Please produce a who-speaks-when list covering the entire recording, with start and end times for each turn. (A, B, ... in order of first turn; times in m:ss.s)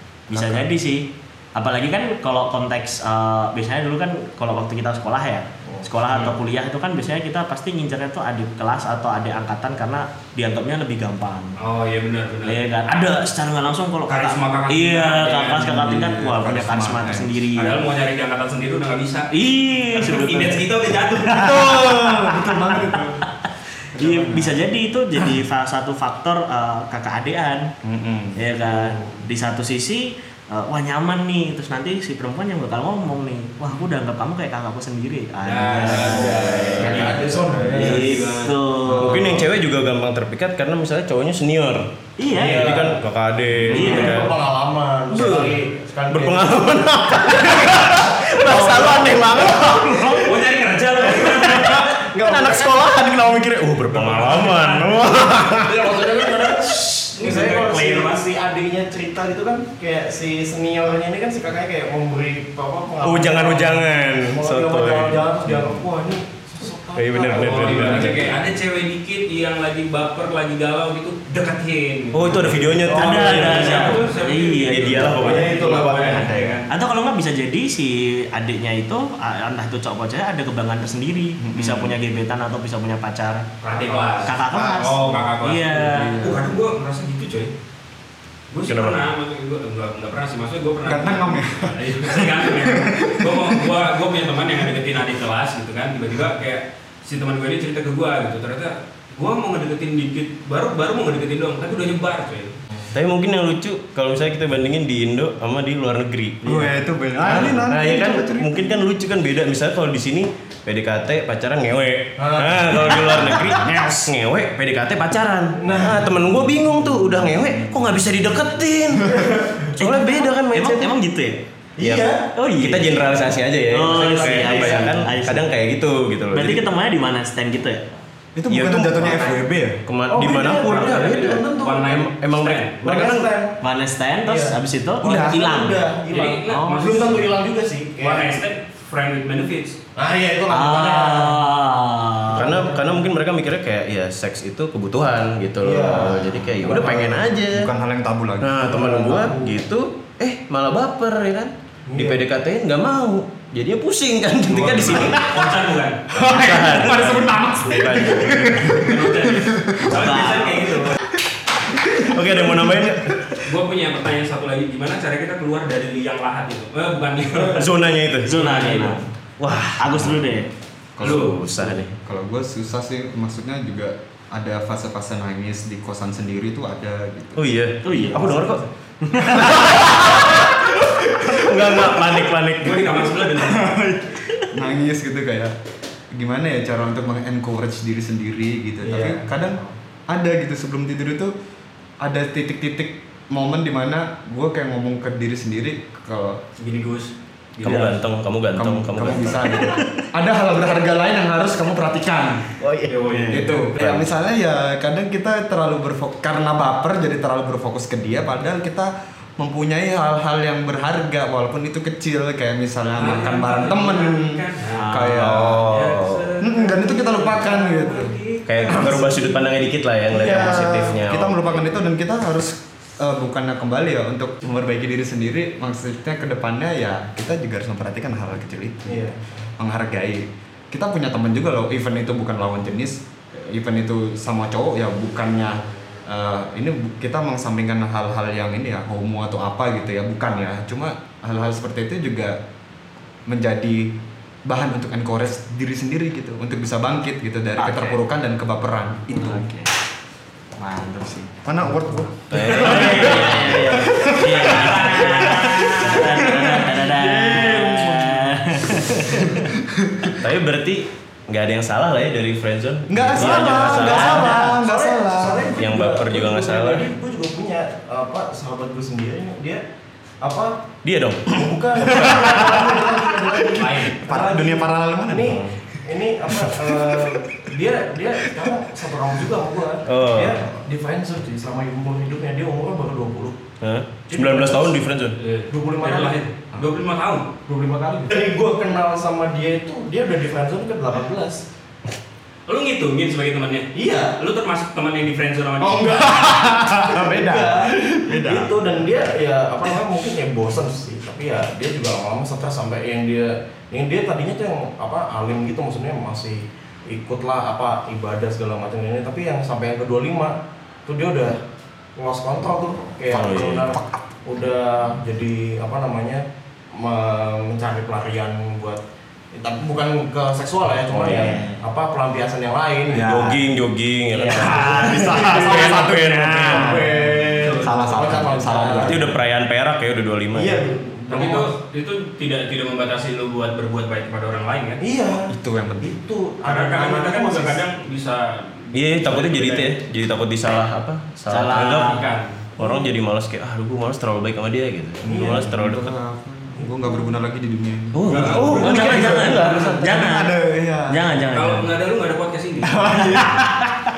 0:00.3-0:11.6 A
0:00.3-0:00.6 B
0:06.1-0:06.3 C
0:11.6-0:12.6 C
0:12.4-0:17.8 A
0:14.1-0:15.7 C
0:15.6-0:17.8 B
0:17.6-0:21.6 C
0:19.3-0:27.7 A
0:21.3-0:23.3 B
0:23.9-0:24.6 B
0:27.8-0:28.4 B
0:28.4-0:37.1 A
0:35.4-0:38.6 C
0:35.9-0:38.5 D
0:36.4-0:37.0 E
0:36.5-0:38.0 B
0:37.7-0:39.4 A
0:38.9-0:39.5 B
0:39.0-0:44.4 E
0:42.2-0:42.7 A
0:42.3-0:43.0 D
0:43.7-0:50.2 D
0:43.7-0:44.3 A
0:45.1-0:50.3 E
0:49.8-0:50.2 A
0:50.2-0:51.9 C
0:51.1-0:53.0 D
0:51.2-0:56.5 E
0:53.9-0:55.0 C
0:55.4-1:08.4 D
0:57.1-0:58.2 C
1:03.0-1:05.8 E
1:06.9-1:08.3 E
1:07.4-1:16.7 C
1:12.1-1:14.0 E
1:12.5-1:14.0 D
1:12.8-1:23.5 A
1:14.6-1:15.7 E
1:15.1-1:16.6 D
1:21.4-1:22.0 B
1:23.6-1:27.5 C
1:23.6-1:24.4 D
1:24.2-1:26.2 A
1:24.6-1:25.3 B
1:25.8-1:26.6 B
1:28.5-1:42.6 C
1:28.7-1:29.1 E
1:30.8-1:33.9 B
1:42.9-1:46.7 E
1:46.4-1:48.8 B
1:47.2-1:59.2 E
1:52.2-1:53.2 D
1:53.1-1:53.5 A
1:55.6-1:56.1 D
1:59.7-2:00.9 E
1:59.8-2:01.4 A
2:01.8-2:02.3 D
2:01.8-2:06.7 E
2:02.4-2:02.9 A
2:03.7-2:05.5 A
2:03.9-2:05.0 D
2:06.3-2:07.8 A
2:08.4-2:09.8 B
2:08.5-2:09.3 E
2:09.8-2:13.3 E
2:10.1-2:12.0 D
2:10.7-2:12.8 C
2:12.8-2:13.6 D
2:13.6-2:15.8 A
2:14.3-2:18.4 D
2:15.0-2:15.4 B
2:16.1-2:17.3 C
2:16.5-2:16.9 A
2:18.0-2:19.8 C
2:20.0-2:21.4 D
2:20.5-2:22.4 A
2:22.3-2:23.1 D
2:22.3-2:27.7 E
2:25.6-2:27.3 D
2:27.4-2:28.6 B
2:28.4-2:35.4 E
2:28.6-2:29.6 D
2:31.9-2:32.3 D
2:34.5-2:36.1 C
2:36.1-2:40.0 B
2:36.3-2:38.7 E
2:38.7-2:41.0 C
2:39.9-2:40.9 A
2:41.7-2:43.3 B
2:42.0-2:43.3 E
2:43.4-2:47.7 C
2:47.5-2:48.4 E
2:48.2-2:49.1 A
2:48.3-2:49.1 C
2:49.4-2:50.2 E
2:49.8-2:50.5 A
2:50.1-2:50.3 B
2:51.0-2:57.6 B
2:51.0-2:51.4 C
2:51.0-2:51.9 E
2:57.4-2:58.6 E
2:57.8-3:00.3 A
2:59.2-3:02.1 B
2:59.9-3:00.6 E
3:01.2-3:03.1 E
3:01.9-3:02.3 A
3:02.6-3:03.7 C
3:03.7-3:04.5 A
3:04.5-3:05.6 B
3:06.1-3:11.3 B
3:08.9-3:09.7 D
3:12.0-3:16.4 B
3:16.6-3:17.9 C
3:17.6-3:19.6 E
3:18.5-3:22.5 B
3:19.5-3:19.9 A
3:22.6-3:23.5 A
3:22.9-3:24.0 C
3:23.3-3:35.7 B
3:32.9-3:34.8 C
3:34.7-3:35.3 A
3:35.2-3:36.3 E
3:35.6-3:38.9 C
3:36.4-3:38.2 B
3:38.5-3:41.4 E
3:38.7-3:39.4 D
3:40.1-3:41.0 D
3:40.2-3:49.1 B
3:48.9-3:49.3 D
3:49.6-4:02.4 B
4:03.3-4:04.0 B
4:04.5-4:09.5 B
4:07.6-4:08.0 A
4:09.1-4:09.7 A
4:10.6-4:11.3 A
4:11.3-4:20.2 B
4:12.3-4:13.7 E
4:12.4-4:19.5 A
4:14.4-4:16.0 C
4:20.2-4:24.4 E
4:22.9-4:25.6 B
4:23.2-4:29.6 D
4:23.2-4:24.6 A
4:25.6-4:26.9 E
4:30.2-4:30.7 D
4:30.8-4:31.4 E
4:31.3-4:43.4 D
4:31.8-4:32.9 B
4:33.6-4:34.0 C
4:33.9-4:35.4 B
4:36.3-4:37.5 B
4:39.9-4:40.4 E
4:43.6-4:45.2 E
4:44.1-4:44.8 D
4:45.2-4:47.3 C
4:45.5-4:46.2 D
4:47.5-4:51.4 D
4:52.5-4:56.2 C
4:53.8-4:54.2 D
4:55.7-5:10.4 D
4:55.7-4:58.5 B
5:10.9-5:11.4 D
5:12.0-5:18.8 D
5:12.4-5:14.2 B
5:13.1-5:13.7 E
5:19.3-5:23.4 D
5:20.9-5:21.4 E
5:21.0-5:21.6 A
5:22.9-5:26.8 E
5:24.2-5:25.2 A
5:24.2-5:29.1 D
5:24.6-5:29.2 B
5:27.3-5:28.2 C
5:28.8-5:30.6 E
5:30.3-5:31.5 D
5:31.1-5:34.8 C
5:34.8-5:37.6 D
5:35.2-5:36.0 B
5:36.4-5:39.7 C
5:38.7-5:42.0 E
5:41.3-5:42.0 A
5:41.6-5:42.5 C
5:42.6-5:45.9 E
5:45.0-5:45.6 D
5:45.0-5:51.0 B
5:46.6-5:47.2 D
5:47.9-5:49.7 E
5:48.1-5:48.6 C
5:48.3-5:50.3 A
5:50.9-5:51.7 A
5:51.3-5:53.2 C
5:52.8-5:53.4 B
5:52.9-5:53.9 A